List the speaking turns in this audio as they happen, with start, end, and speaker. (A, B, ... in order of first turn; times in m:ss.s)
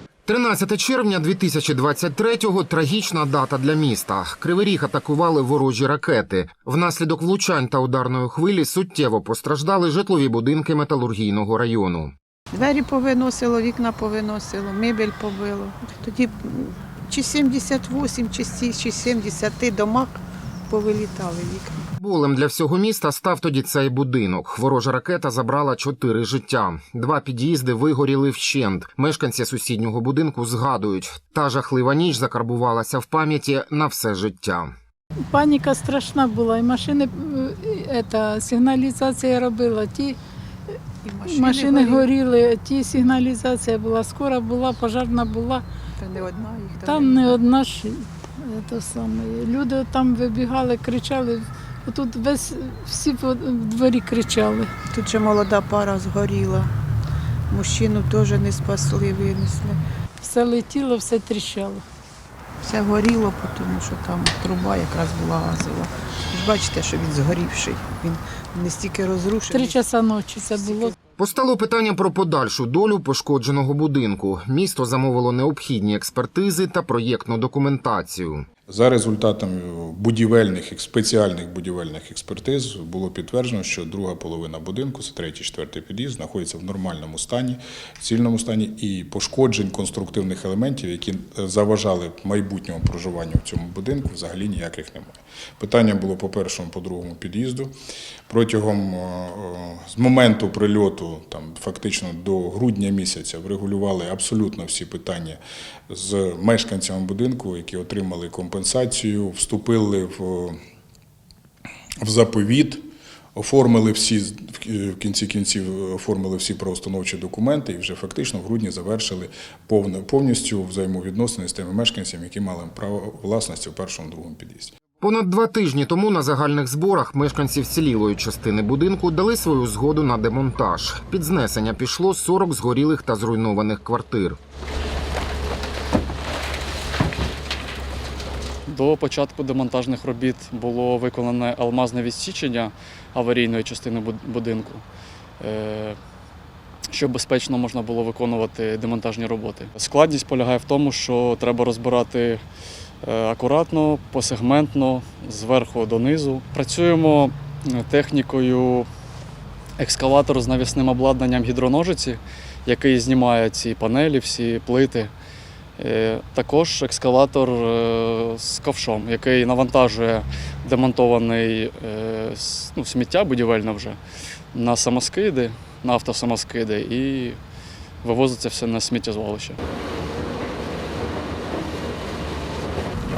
0:00.3-0:12.1 A
0:12.5-0:21.9 B
0:22.0-0:34.7 A
0:35.3-0:40.2 C
0:41.0-0:42.1 B
0:41.2-0:45.6 C
0:46.0-0:47.4 B
0:46.8-0:54.7 C
0:54.9-0:56.7 B
0:57.5-0:59.8 B
1:00.2-1:01.8 C
1:02.6-1:09.8 B
1:09.5-1:10.9 C
1:10.6-1:10.9 B
1:11.2-1:18.4 A
1:18.7-1:37.7 D
1:38.3-1:50.6 D
1:52.0-1:52.8 D
1:53.4-2:04.8 D
2:05.0-2:14.4 A
2:18.7-2:24.8 E
2:25.4-2:26.0 E
2:26.9-2:32.4 E
2:33.0-2:38.9 E
2:39.8-2:45.1 E
2:45.8-2:54.0 E
2:54.5-2:57.4 E
2:58.0-2:59.6 E